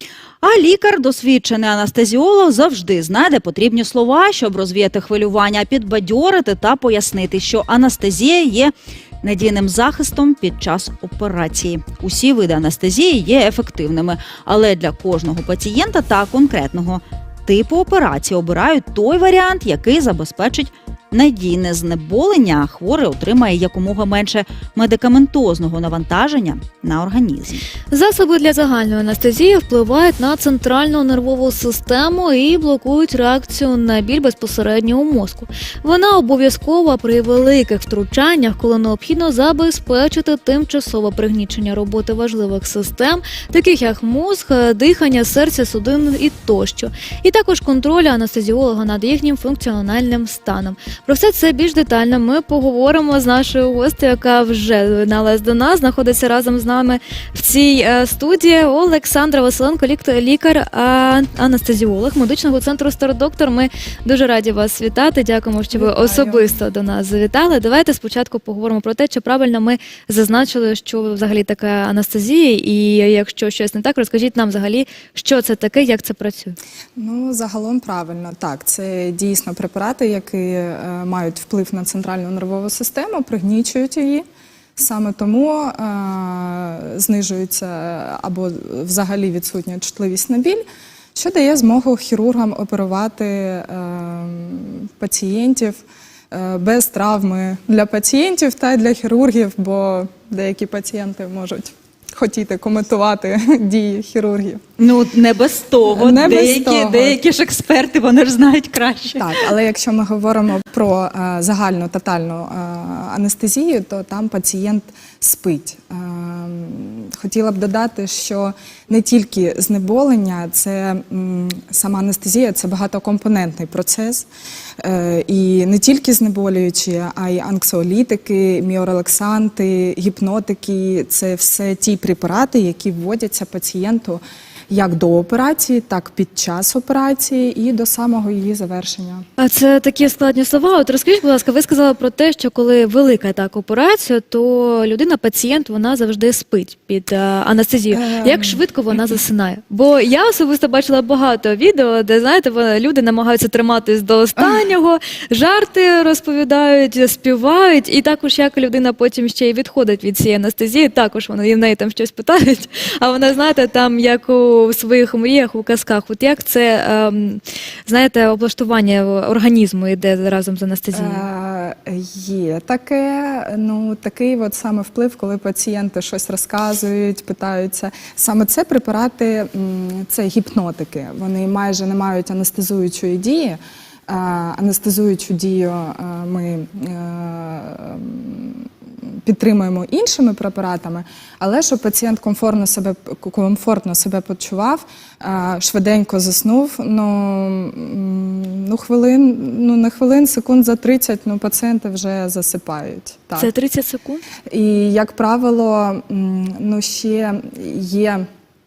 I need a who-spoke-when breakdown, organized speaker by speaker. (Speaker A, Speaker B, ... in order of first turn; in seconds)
Speaker A: 0.4-27.6, 104.8-109.4
Speaker B: 27.9-76.6, 139.4-171.2, 203.4-204.2
Speaker C: 65.7-66.6, 77.0-84.2, 84.8-90.6, 91.1-104.6, 105.9-107.2, 109.2-124.3, 124.8-139.2, 147.9-149.1, 154.4-154.6, 170.9-188.7, 189.2-203.5, 204.5-208.2